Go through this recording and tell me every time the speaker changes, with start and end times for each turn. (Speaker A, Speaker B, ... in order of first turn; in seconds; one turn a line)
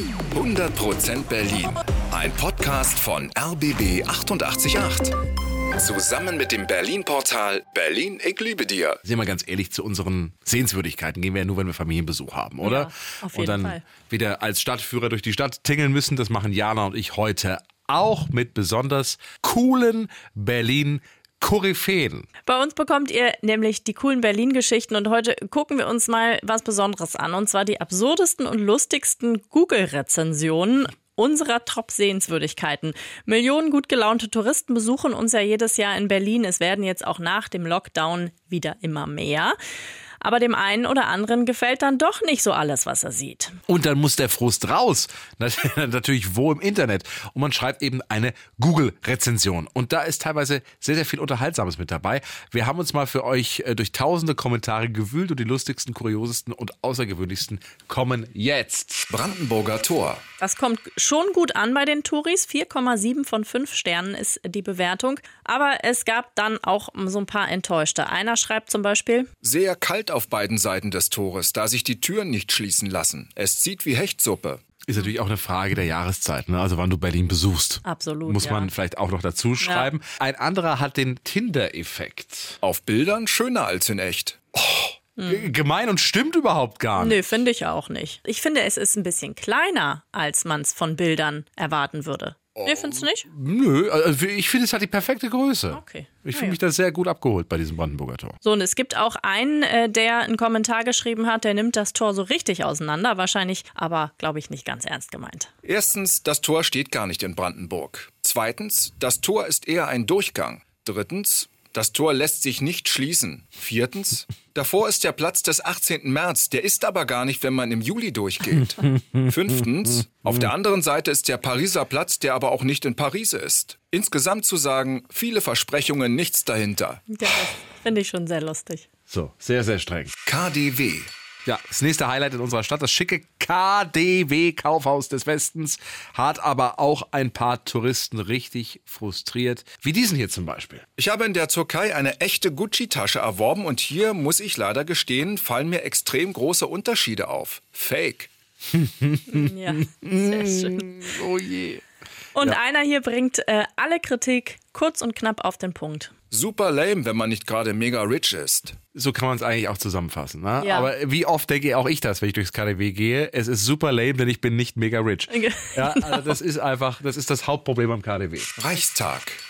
Speaker A: 0.3-5.1
Speaker A: 5.8-9.0
Speaker B: 9.0-22.2
Speaker C: 12.6-13.8
Speaker C: 22.4-39.5
Speaker C: 40.2-43.6
Speaker B: 43.7-59.0
Speaker A: 59.1-60.2
Speaker C: 60.4-69.3
Speaker A: 69.4-74.6
Speaker B: 74.8-82.6
Speaker C: 77.8-78.7
Speaker C: 79.6-79.9
Speaker A: 82.6-84.4
Speaker B: 84.5-87.2
Speaker C: 85.2-85.5
Speaker C: 87.0-93.3
Speaker B: 92.6-98.4
Speaker C: 95.7-96.6
Speaker C: 98.4-105.5
Speaker A: 105.6-127.0
Speaker B: 118.8-119.2
Speaker C: 127.1-128.8
Speaker B: 129.1-130.1
Speaker A: 130.2-131.1
Speaker B: 131.4-140.8
Speaker A: 141.0-148.3
Speaker B: 148.7-151.8
Speaker C: 149.3-151.0
Speaker C: 152.3-156.1
Speaker A: 156.3-158.8
Speaker B: 158.9-168.5
Speaker C: 160.6-160.9
Speaker C: 165.3-166.3
Speaker A: 168.6-169.4